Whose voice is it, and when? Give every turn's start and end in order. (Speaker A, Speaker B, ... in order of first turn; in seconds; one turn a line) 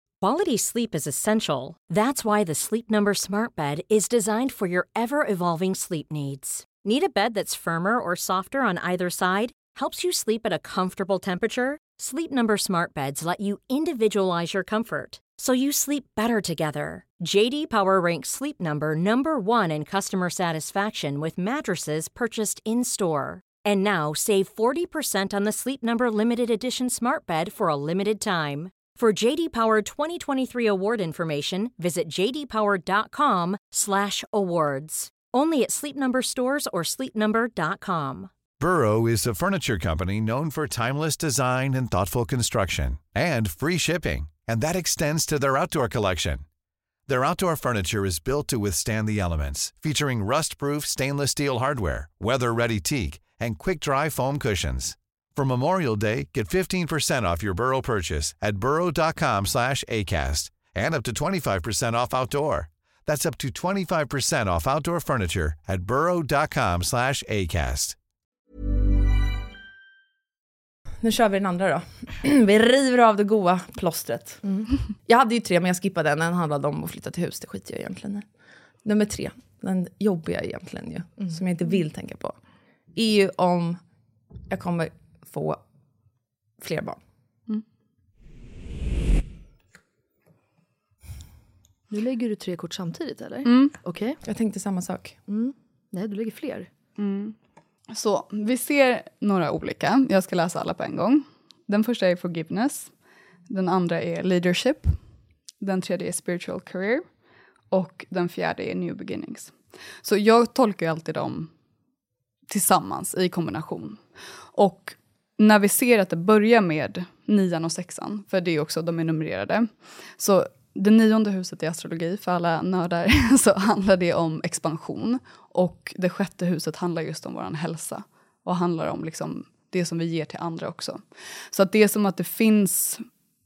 Speaker A: 0.2-38.3
Speaker B: 38.6-46.4
Speaker B: 47.1-68.0
Speaker C: 71.0-74.4
Speaker C: 75.1-78.3
Speaker C: 78.8-82.4
Speaker C: 83.0-83.8
Speaker C: 84.5-85.6
Speaker C: 86.6-87.0
Speaker D: 91.9-94.2
Speaker E: 93.5-93.7
Speaker C: 94.2-95.2
Speaker D: 95.3-96.7
Speaker E: 97.0-97.3
Speaker E: 97.9-102.9
Speaker E: 103.5-105.0
Speaker E: 105.6-107.0
Speaker E: 107.7-111.5
Speaker E: 112.5-114.0
Speaker E: 114.5-133.0